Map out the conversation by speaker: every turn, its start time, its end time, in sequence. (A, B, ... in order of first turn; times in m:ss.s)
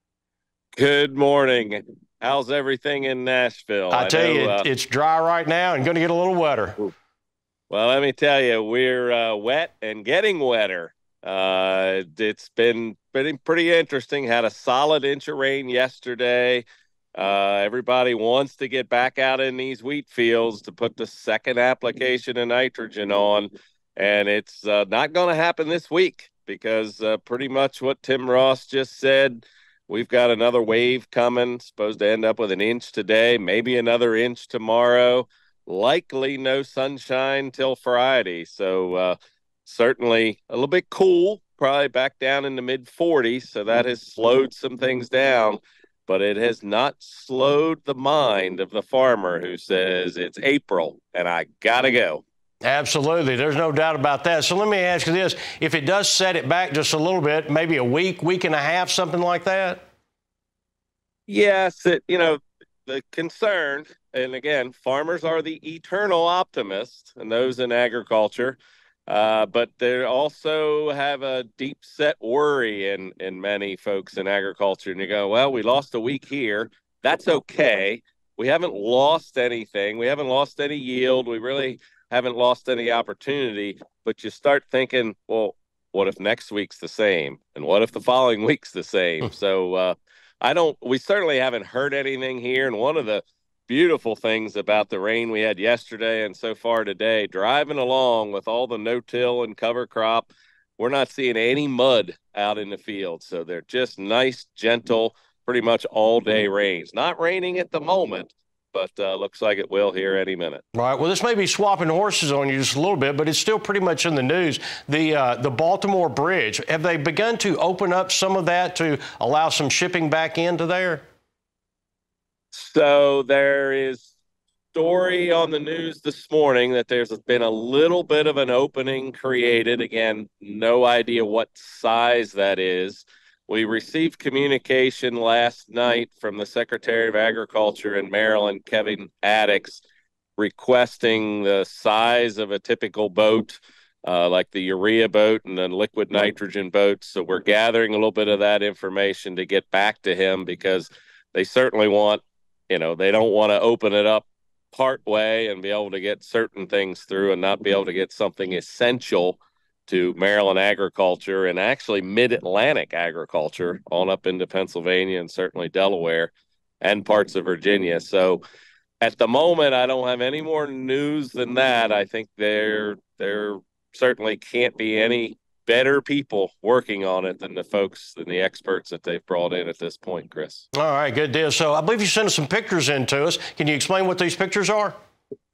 0:00.8-0:04.6 A
0:03.9-0:06.9 B
0:07.7-0:16.6 A
0:17.2-0:52.2 A
0:52.6-0:59.8 B
1:01.3-1:50.6 A
1:50.7-2:01.0 B
2:02.5-2:04.1 A
2:04.7-2:19.8 A
2:20.4-2:48.4 A
2:49.0-3:00.6 A
3:00.7-3:04.9 B